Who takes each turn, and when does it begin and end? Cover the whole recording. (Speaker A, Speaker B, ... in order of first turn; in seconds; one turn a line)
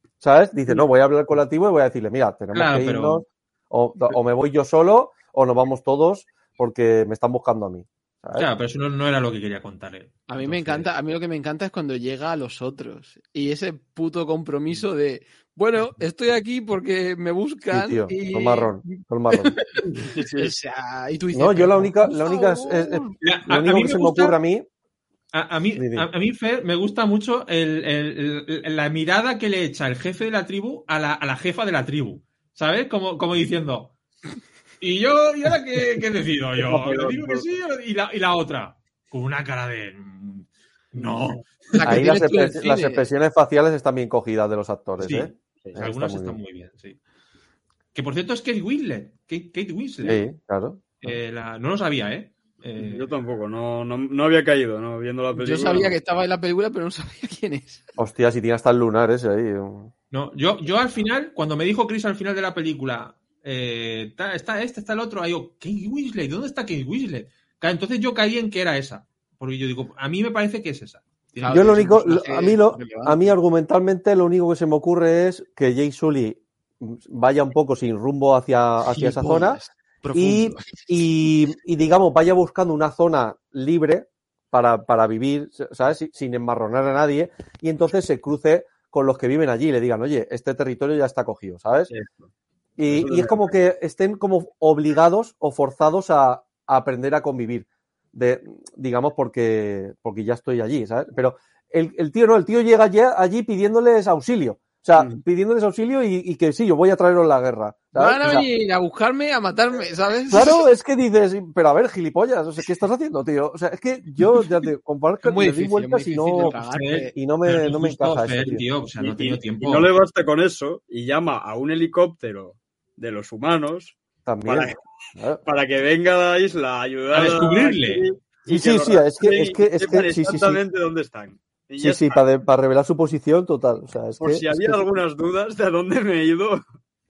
Speaker A: 0.2-8.5
Speaker B: 2.5-3.2
Speaker B: 8.3-10.9
Speaker C: 10.3-23.1
Speaker A: 17.7-19.6
Speaker D: 20.1-20.5
Speaker A: 21.3-24.6
Speaker B: 23.2-24.4
Speaker B: 25.3-33.9
Speaker A: 25.7-26.1
Speaker B: 34.8-42.0
Speaker A: 36.6-37.5
Speaker C: 41.7-43.1
Speaker A: 41.8-46.4
Speaker B: 45.0-47.0
Speaker B: 47.9-50.2
Speaker A: 50.0-50.8
Speaker B: 51.0-53.1
Speaker D: 52.8-56.0
Speaker C: 55.3-57.8
Speaker A: 58.0-59.9
Speaker B: 60.1-71.9
Speaker C: 71.4-73.3
Speaker A: 71.5-79.6
Speaker C: 78.9-80.9
Speaker A: 80.1-91.9
Speaker D: 91.9-92.3
Speaker A: 92.8-108.4
Speaker D: 92.9-93.4
Speaker C: 107.9-110.6
Speaker A: 110.3-116.5
Speaker C: 115.2-117.1
Speaker B: 116.2-119.9
Speaker A: 117.1-118.6
Speaker D: 119.0-123.9
Speaker A: 124.2-125.4
Speaker D: 124.5-124.8
Speaker D: 125.4-132.2
Speaker B: 127.1-128.0
Speaker A: 128.5-130.6
Speaker A: 131.8-134.8
Speaker D: 134.2-136.6